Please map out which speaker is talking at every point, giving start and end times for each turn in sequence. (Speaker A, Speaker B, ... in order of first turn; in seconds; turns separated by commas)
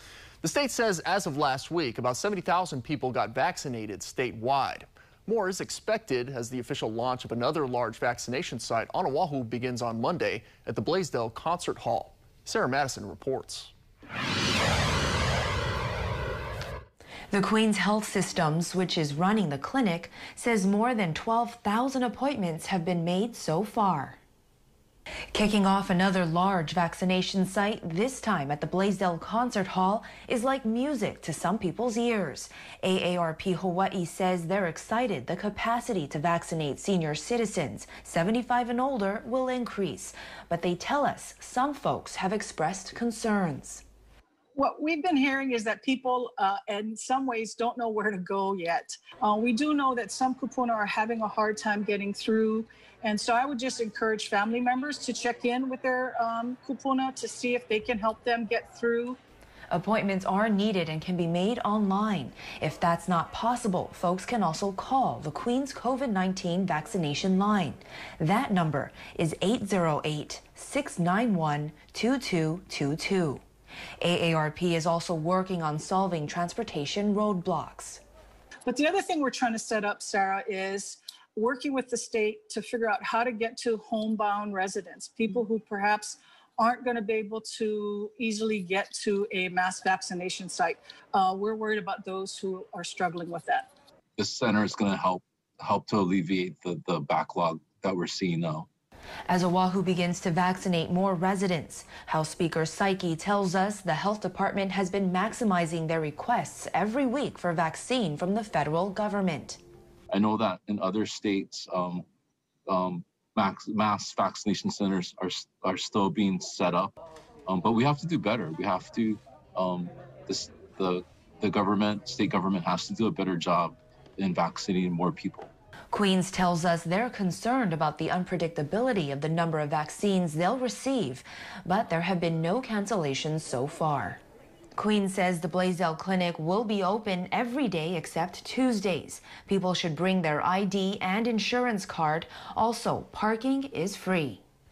Speaker A: 0.4-13.7, Speaker B: 17.3-24.2, Speaker B: 25.3-43.8, Speaker C: 44.5-59.2, Speaker B: 59.7-73.4, Speaker B: 74.0-78.0, Speaker C: 78.6-93.7, Speaker D: 94.2-98.7, Speaker B: 99.3-109.6, Speaker D: 110.1-112.1, Speaker D: 112.7-116.9, Speaker D: 117.5-125.5, Speaker B: 125.9-134.2, Speaker B: 134.8-144.4